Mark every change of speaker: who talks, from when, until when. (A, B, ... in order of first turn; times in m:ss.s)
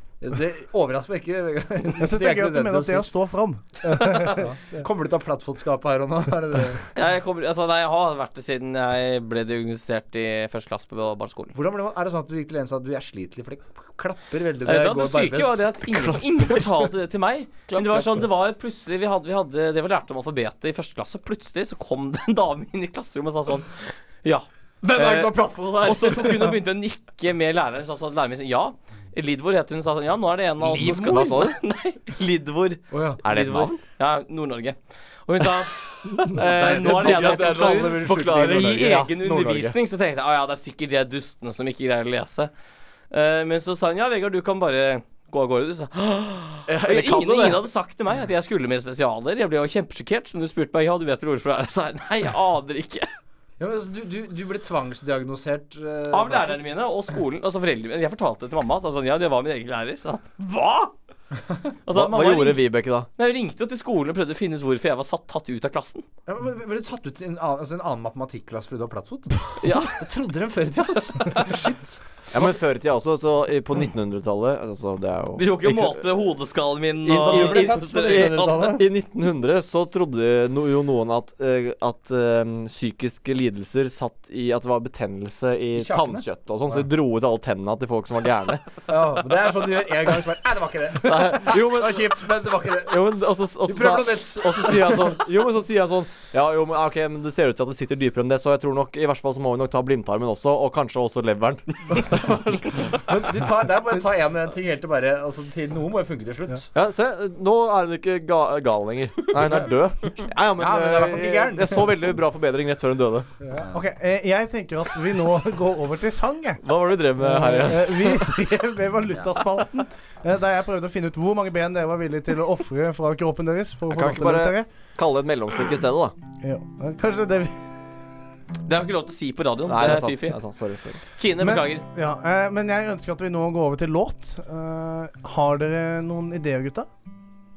0:00.2-0:03.1 A
0:02.0-0:04.5 B
0:04.4-0:06.9 A
0:06.9-0:11.6 C
0:11.5-0:15.7 A
0:14.6-0:42.5 C
0:17.7-0:18.2 D
0:24.8-0:26.6 D
0:30.6-0:31.6 D
0:32.9-0:33.2 A
0:33.2-0:33.8 D
0:36.1-0:39.8 D
0:36.3-0:39.0 A
0:43.1-0:53.1 C
0:46.7-0:47.6 D
0:53.6-0:56.6 A
0:56.1-1:00.9 C
1:01.9-1:02.6 C
1:01.9-1:03.1 D
1:03.2-1:06.1 C
1:06.2-1:12.0 A
1:09.6-1:09.9 D
1:12.3-1:16.1 D
1:15.4-1:18.8 C
1:17.0-1:28.6 D
1:17.2-1:18.9 A
1:25.7-1:26.8 A
1:28.9-1:33.0 A
1:31.0-1:43.0 D
1:33.6-1:35.2 A
1:42.9-1:46.7 A
1:46.7-1:53.3 D
1:49.3-1:49.7 A
1:50.5-1:52.0 A
1:53.4-1:56.6 B
1:53.5-1:53.8 A
1:56.6-1:58.3 D
1:57.2-2:04.7 B
2:03.9-2:06.1 D
2:06.4-2:07.7 B
2:08.6-2:10.4 C
2:09.6-2:11.0 D
2:11.2-2:11.8 C
2:11.4-2:16.9 B